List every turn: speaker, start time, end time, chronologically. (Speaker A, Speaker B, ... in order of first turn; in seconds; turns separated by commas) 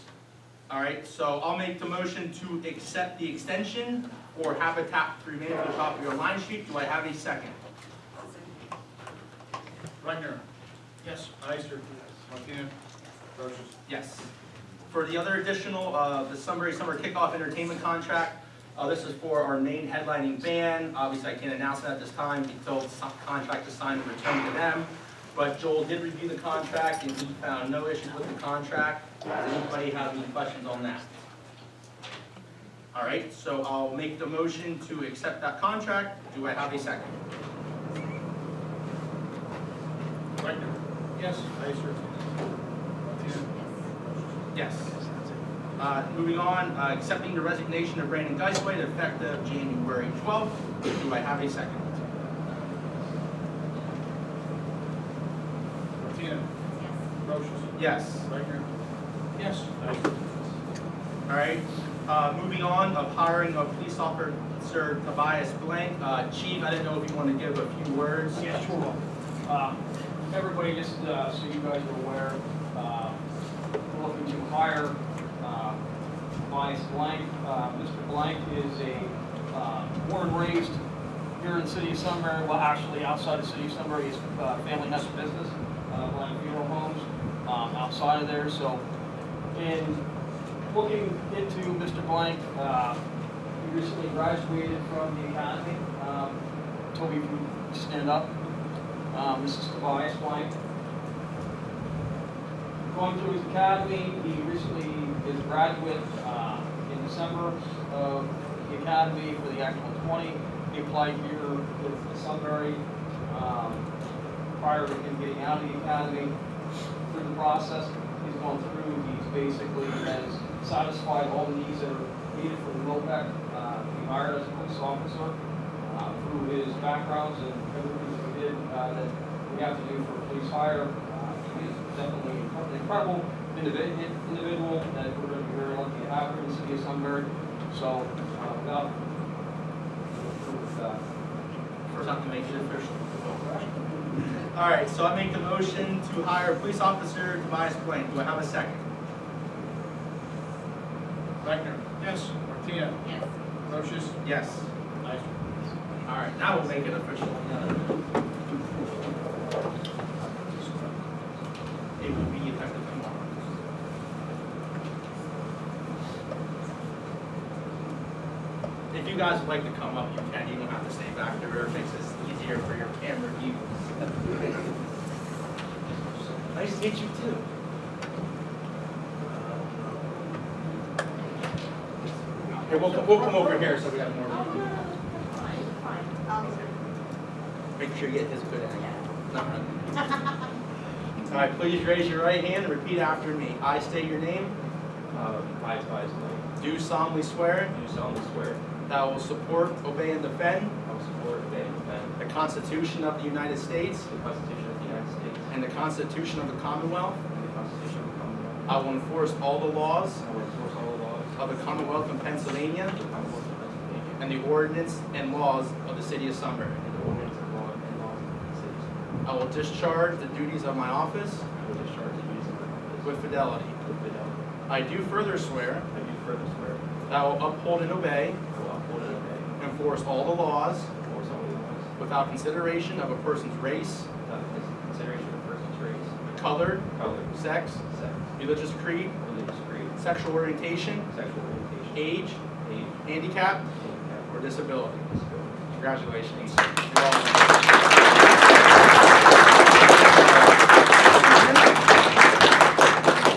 Speaker A: 0.7-7.6, Speaker B: 10.0-10.4, Speaker B: 11.0-12.7, Speaker B: 13.3-13.7, Speaker A: 13.8-14.3, Speaker A: 14.9-31.1, Speaker A: 32.9-37.1, Speaker B: 40.4-42.0, Speaker B: 43.0-44.4, Speaker A: 44.5-45.0, Speaker A: 45.8-52.0, Speaker B: 56.0-56.5, Speaker C: 56.6-57.0, Speaker B: 57.2-58.6, Speaker A: 57.8-58.3, Speaker B: 59.3-60.5, Speaker A: 61.3-68.6, Speaker D: 68.4-68.9, Speaker B: 68.5-69.0, Speaker D: 69.5-73.2, Speaker D: 73.8-75.8, Speaker D: 76.4-80.8, Speaker D: 81.3-88.8, Speaker D: 89.5-90.0, Speaker D: 90.7-93.0, Speaker D: 93.6-96.4, Speaker D: 96.9-98.3, Speaker D: 99.1-100.5, Speaker D: 102.9-113.9, Speaker D: 114.6-116.4, Speaker D: 117.0-138.9, Speaker D: 140.1-141.0, Speaker A: 141.9-143.7, Speaker A: 144.3-148.8, Speaker B: 151.4-153.0, Speaker C: 153.0-153.3, Speaker B: 153.6-154.2, Speaker A: 154.2-154.7, Speaker B: 155.0-155.7, Speaker A: 156.0-158.0, Speaker B: 160.2-160.9, Speaker A: 162.0-163.4, Speaker A: 168.9-174.7, Speaker A: 176.4-177.4, Speaker A: 179.4-179.9, Speaker C: 182.6-186.7, Speaker A: 182.6-184.8, Speaker A: 186.3-186.7, Speaker A: 187.8-189.7, Speaker C: 188.8-189.0, Speaker A: 191.3-194.6, Speaker E: 195.1-196.5, Speaker A: 196.6-197.8, Speaker E: 197.7-198.6, Speaker A: 198.9-200.8, Speaker E: 200.8-202.2, Speaker A: 202.2-204.1, Speaker E: 204.1-205.5, Speaker A: 205.5-207.2, Speaker E: 207.3-208.8, Speaker A: 208.7-210.2, Speaker E: 210.2-211.4, Speaker A: 211.3-213.0, Speaker E: 212.9-214.2, Speaker A: 214.2-216.8, Speaker E: 216.8-219.0, Speaker A: 219.2-221.5, Speaker E: 221.5-223.2, Speaker A: 223.0-223.8, Speaker E: 223.8-224.4, Speaker A: 224.7-225.9, Speaker E: 225.9-226.8, Speaker A: 227.1-228.4, Speaker E: 228.5-229.5, Speaker A: 229.6-230.9, Speaker E: 231.0-231.9, Speaker A: 232.0-234.1, Speaker E: 234.2-236.1, Speaker A: 236.3-237.8, Speaker E: 236.9-237.3, Speaker E: 237.8-238.3, Speaker A: 238.3-239.2, Speaker E: 239.2-239.9, Speaker A: 239.9-241.1, Speaker E: 241.1-243.1, Speaker A: 241.9-242.4, Speaker A: 243.0-243.7, Speaker E: 243.7-245.6, Speaker A: 244.3-245.1, Speaker A: 245.7-247.8, Speaker A: 249.7-251.8